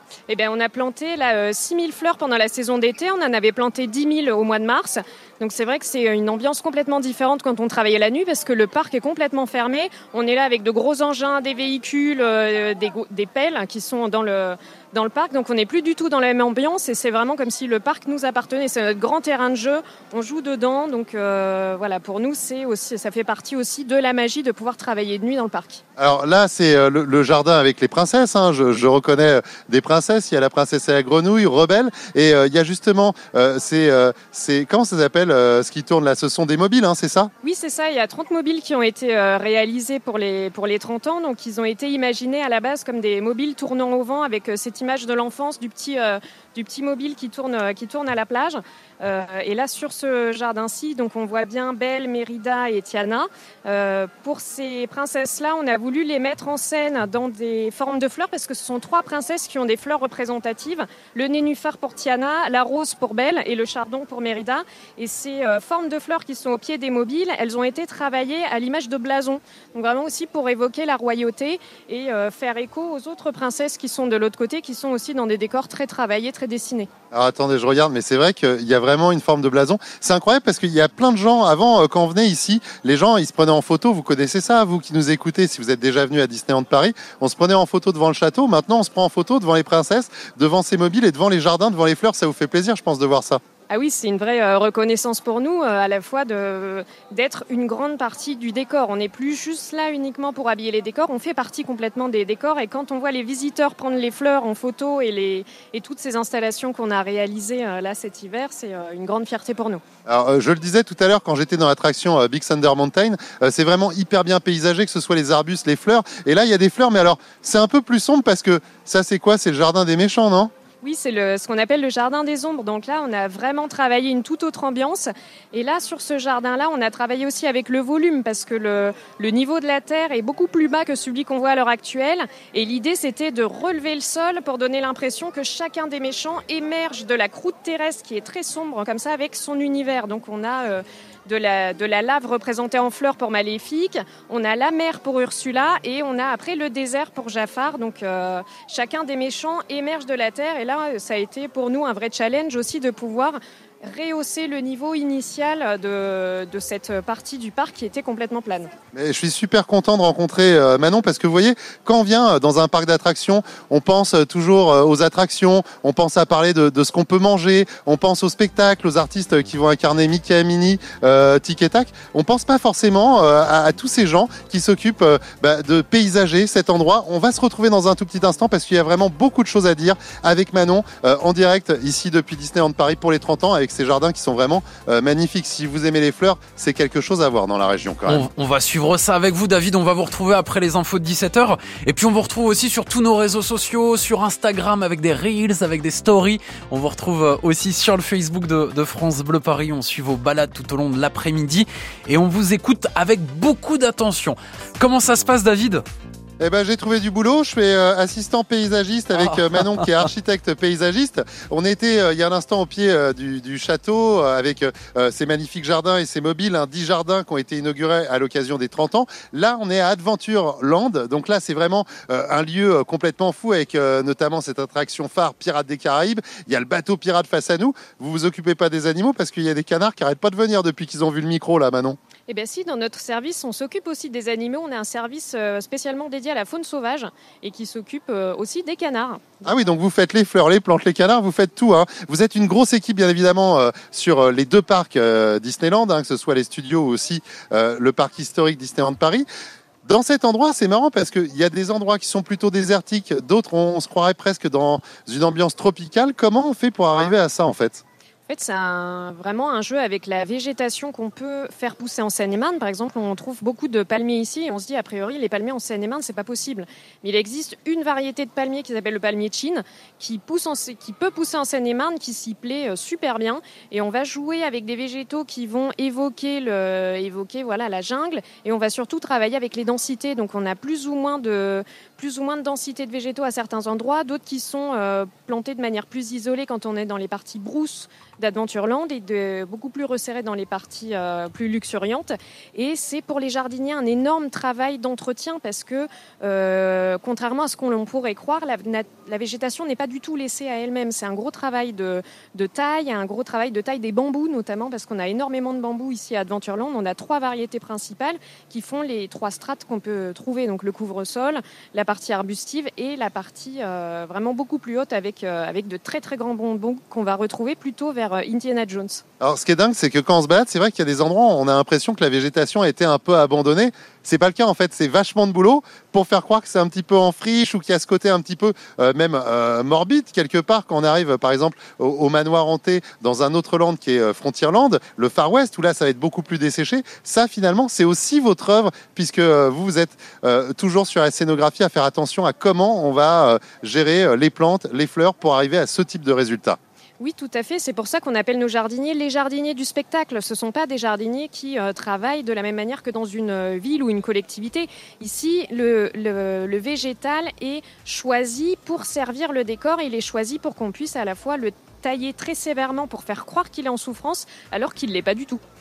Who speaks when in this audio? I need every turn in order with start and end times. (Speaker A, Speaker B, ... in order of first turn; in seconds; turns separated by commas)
Speaker A: 0.3-25.8, Speaker B: 26.0-37.3, Speaker A: 37.4-76.9, Speaker B: 77.1-93.4, Speaker A: 93.7-109.8, Speaker B: 110.1-120.5, Speaker A: 120.8-158.7, Speaker B: 158.9-188.2, Speaker C: 188.1-205.8, Speaker B: 206.4-232.0, Speaker C: 209.2-210.1, Speaker A: 232.3-239.4, Speaker B: 239.4-249.3, Speaker B: 249.8-257.8, Speaker A: 258.3-319.0, Speaker B: 319.2-346.6, Speaker A: 347.0-365.4